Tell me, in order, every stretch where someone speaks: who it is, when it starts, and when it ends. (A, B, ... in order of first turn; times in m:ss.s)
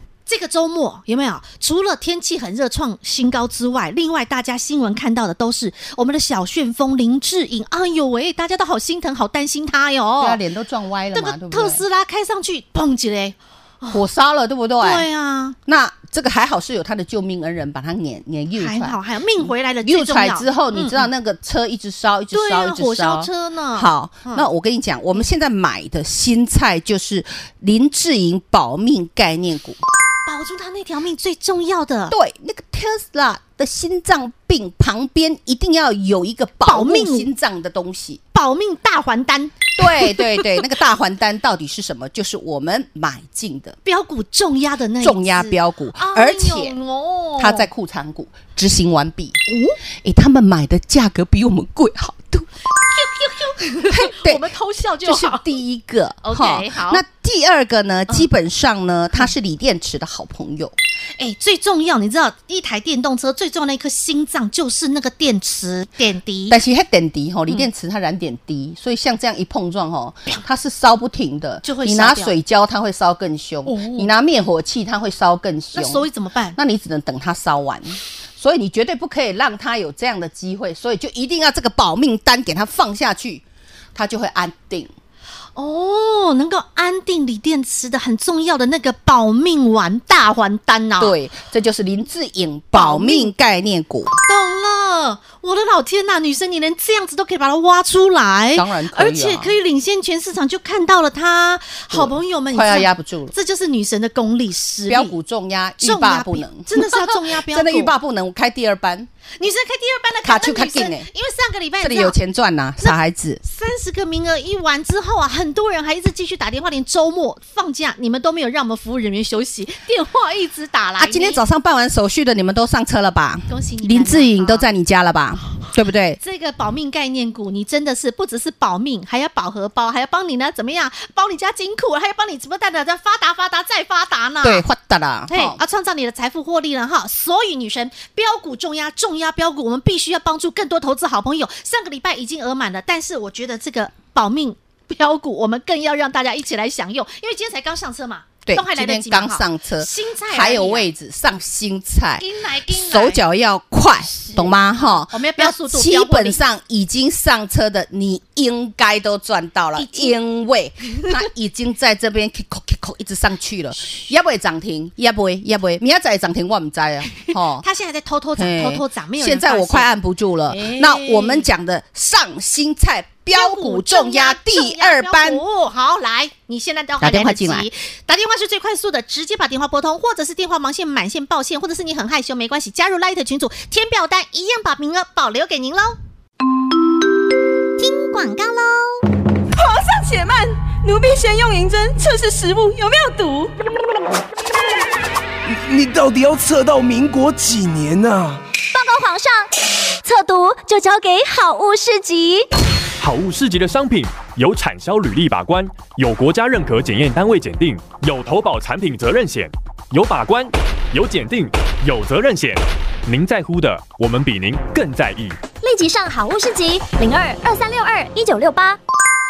0:00.2-0:10.4 A
0:10.2-0:11.8 B
0:11.1-0:14.0 A
0:13.9-0:15.1 B
0:14.8-0:15.6 A
0:15.6-0:29.8 B
0:18.6-0:21.1 A
0:22.3-0:24.4 A
0:30.2-0:32.1 A
0:32.1-0:38.2 B
0:36.6-0:37.3 A
0:38.3-0:40.5 A
0:39.8-0:43.8 B
0:43.8-0:47.7 A
0:45.0-0:46.8 B
0:47.4-0:49.4 B
0:49.5-0:49.8 A
0:50.0-0:52.5 B
0:52.7-0:55.5 A
0:53.8-1:00.7 B
0:56.2-0:57.0 A
1:01.2-1:06.6 A
1:06.5-1:23.4 B
1:11.6-1:12.3 A
1:13.6-1:14.1 A
1:15.7-1:16.6 A
1:23.9-1:24.9 B
1:25.6-1:31.1 A
1:31.0-1:34.1 B
1:32.7-1:33.3 A
1:34.2-1:45.1 A
1:38.5-1:39.5 B
1:41.9-1:43.3 B
1:44.9-1:49.1 B
1:45.8-1:47.9 A
1:49.4-1:52.1 A
1:50.2-1:51.1 B
1:51.8-1:53.4 B
1:52.8-2:01.4 A
2:01.0-2:06.2 B
2:03.5-2:04.6 A
2:06.2-2:14.6 A
2:14.4-2:15.6 B
2:15.3-2:30.9 A
2:28.4-2:47.6 B
2:32.2-2:33.2 A
2:34.1-2:36.4 A
2:39.8-2:40.2 A
2:47.1-2:49.9 A
2:48.4-2:55.4 B
2:50.5-2:51.5 A
2:53.3-3:06.0 A
2:57.0-2:57.7 B
3:07.8-3:09.0 C
3:09.5-3:13.5 D
3:15.4-3:18.4 E
3:18.7-3:19.5 C
3:20.0-3:22.5 C
3:23.0-3:35.4 F
3:35.6-3:38.8 C